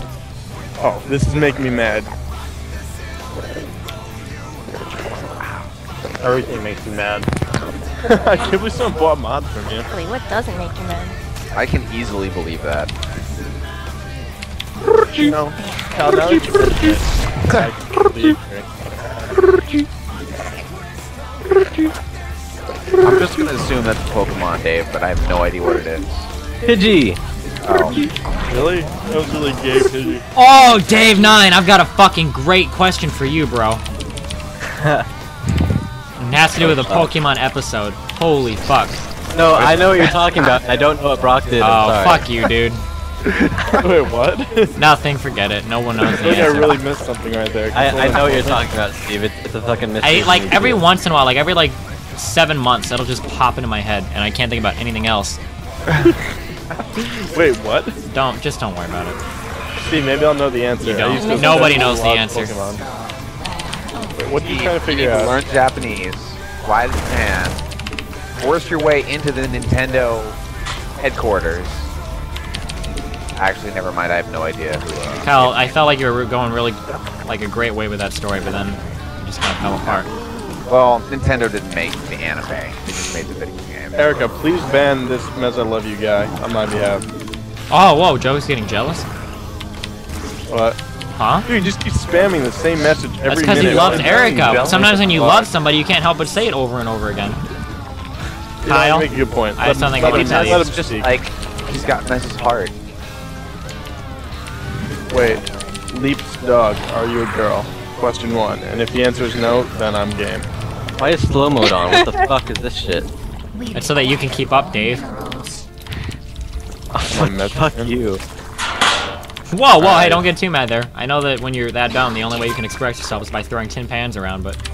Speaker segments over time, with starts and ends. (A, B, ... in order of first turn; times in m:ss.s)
0:00.8-0:02.2 A
0:05.2-0:05.7 B
0:06.2-0:07.3 C
0:08.0-0:09.9 A
0:09.9-0:11.2 D
0:11.5-0:12.9 B
0:15.2-0:18.7 A
0:16.1-0:16.5 E
0:21.6-0:21.9 E
0:23.0-0:26.3 B
0:26.6-0:27.2 E
0:27.6-0:28.0 B
0:28.4-0:30.2 A
0:30.3-0:33.8 F
0:34.7-0:35.1 E
0:36.2-0:39.0 F
0:36.6-0:37.1 E
0:39.3-0:42.2 E
0:39.6-0:39.9 A
0:41.6-0:42.8 F
0:43.2-0:43.8 B
0:43.8-0:44.8 A
0:44.8-0:46.8 F
0:46.0-0:48.6 A
0:47.7-0:50.9 E
0:50.0-0:55.4 F
0:55.9-0:56.2 A
0:56.9-0:57.9 A
0:58.1-0:59.2 F
0:59.8-1:02.9 A
1:00.8-1:02.6 F
1:01.1-1:01.8 D
1:04.1-1:05.4 A
1:04.4-1:07.6 B
1:08.4-1:10.4 B
1:11.0-1:11.9 B
1:13.4-1:15.7 B
1:15.2-1:20.1 F
1:20.7-1:24.0 B
1:23.9-1:27.1 A
1:27.7-1:29.1 F
1:30.5-1:30.8 A
1:31.2-1:31.5 F
1:31.4-1:35.5 A
1:33.3-1:37.4 F
1:33.8-1:34.0 B
1:34.1-1:35.2 C
1:38.6-1:41.1 A
1:38.7-1:40.7 F
1:40.0-1:42.8 B
1:45.1-1:50.5 A
1:51.0-1:53.1 E
1:53.7-1:55.2 F
1:56.9-1:58.2 E
1:57.1-1:58.0 A
1:59.5-2:04.6 F
1:59.8-2:00.2 A